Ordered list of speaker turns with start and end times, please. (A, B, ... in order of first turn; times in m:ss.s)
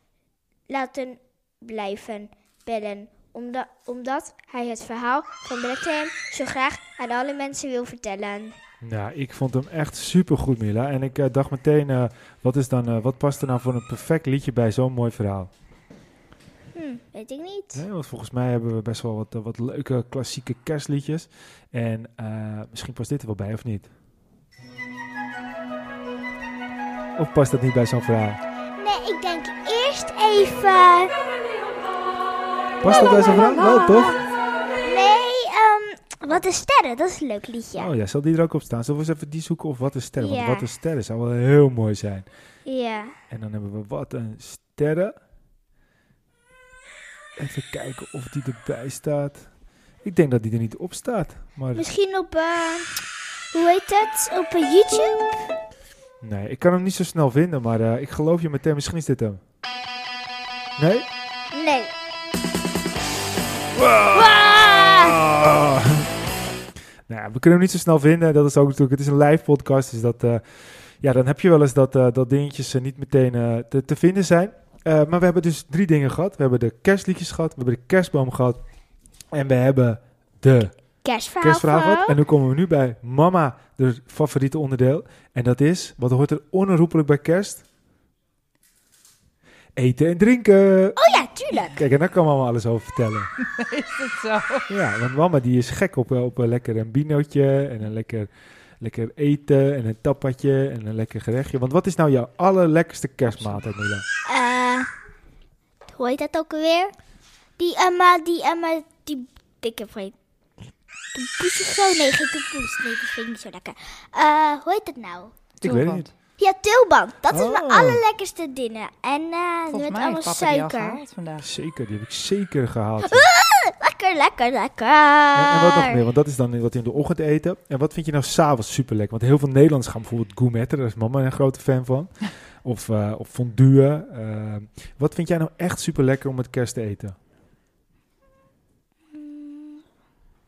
0:00.7-0:08.5 A
0:08.8-0:15.5 B
0:16.7-0:17.8 A
0:17.8-0:23.9 B
0:27.2-0:28.4 B
0:28.8-0:31.1 A
0:32.8-0:34.2 B
0:32.9-0:34.2 A
0:34.8-0:37.9 A
0:37.8-0:42.3 B
0:40.2-0:40.7 A
0:42.7-0:43.1 A
0:43.3-0:45.1 B
0:47.4-0:49.4 B
0:50.0-0:51.9 B
0:51.7-0:53.0 A
0:53.5-0:55.4 A
0:56.2-0:59.4 B
1:00.8-1:01.1 B
1:01.5-1:01.9 A
1:03.8-1:06.1 B
1:04.1-1:05.2 A
1:07.1-1:10.4 B
1:11.0-1:18.6 B
1:19.3-1:20.7 B
1:21.0-1:22.2 A
1:21.4-1:27.6 B
1:29.8-1:31.0 B
1:31.0-1:31.8 A
1:31.6-1:33.3 B
1:33.4-1:34.7 C
1:34.7-1:38.3 B
1:38.8-1:44.0 B
1:44.3-1:44.9 A
1:45.9-1:46.9 A
1:47.6-1:50.1 A
1:51.2-1:55.3 A
1:55.6-1:56.1 C
1:55.6-1:56.0 B
1:56.4-2:01.0 A
1:57.3-1:58.0 B
1:59.7-2:01.5 C
2:01.4-2:03.3 B
2:03.0-2:06.0 A
2:05.4-2:12.1 B
2:12.6-2:17.2 B
2:19.1-2:19.8 A